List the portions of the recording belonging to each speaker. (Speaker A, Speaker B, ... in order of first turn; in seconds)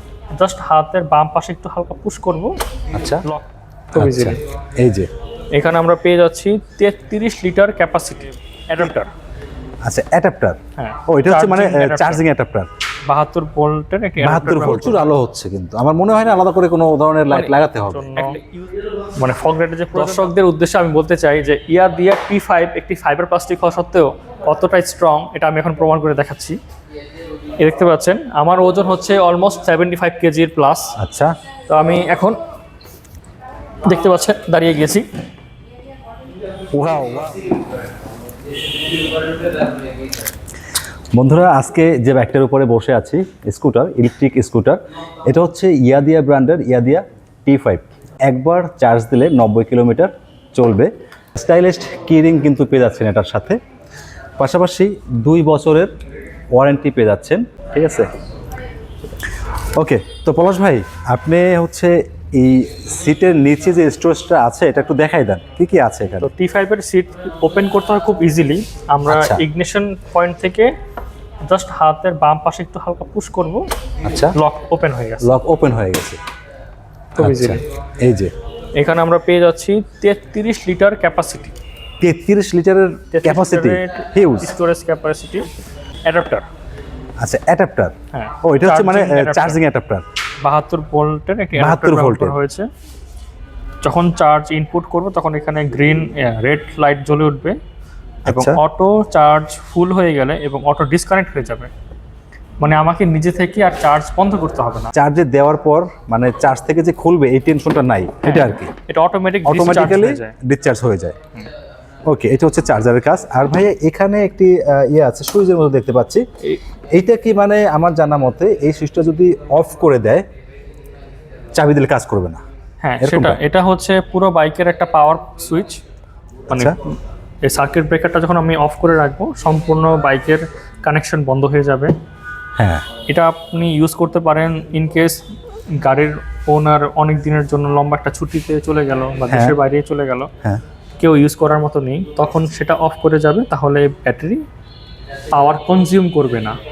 Speaker A: 0.3-2.5, 3.2-4.4, 5.5-9.1, 10.8-12.2, 13.1-15.1, 17.3-18.7, 19.2-26.6, 27.6-30.9, 31.7-32.4, 33.9-35.1, 66.2-70.7, 71.4-73.6, 74.3-75.3, 77.2-77.6, 78.8-81.5, 83.1-85.5, 86.0-86.5, 88.1-89.6, 90.4-92.7, 93.8-97.6, 98.3-101.7, 102.6-104.9, 108.2-110.3, 122.8-125.8, 126.5-131.9, 133.1-140.3, 141.0-144.4, 145.3-146.6
Speaker B: 2.9-3.2, 4.0-5.1, 9.8-12.7, 14.2-18.4, 31.0-31.3, 36.7-37.5, 41.1-53.6, 54.4-55.9, 56.5-58.1, 59.8-66.3, 69.1-69.4, 74.0-74.3, 75.2-76.2, 77.2-78.3, 82.0-84.6, 87.2-90.0, 91.6-92.4, 98.3-98.6, 104.9-108.7, 109.5-111.2, 112.1-116.2, 117.0-120.2, 121.5-122.4, 123.0-123.4, 126.5-126.8, 132.6-132.9, 139.3-139.6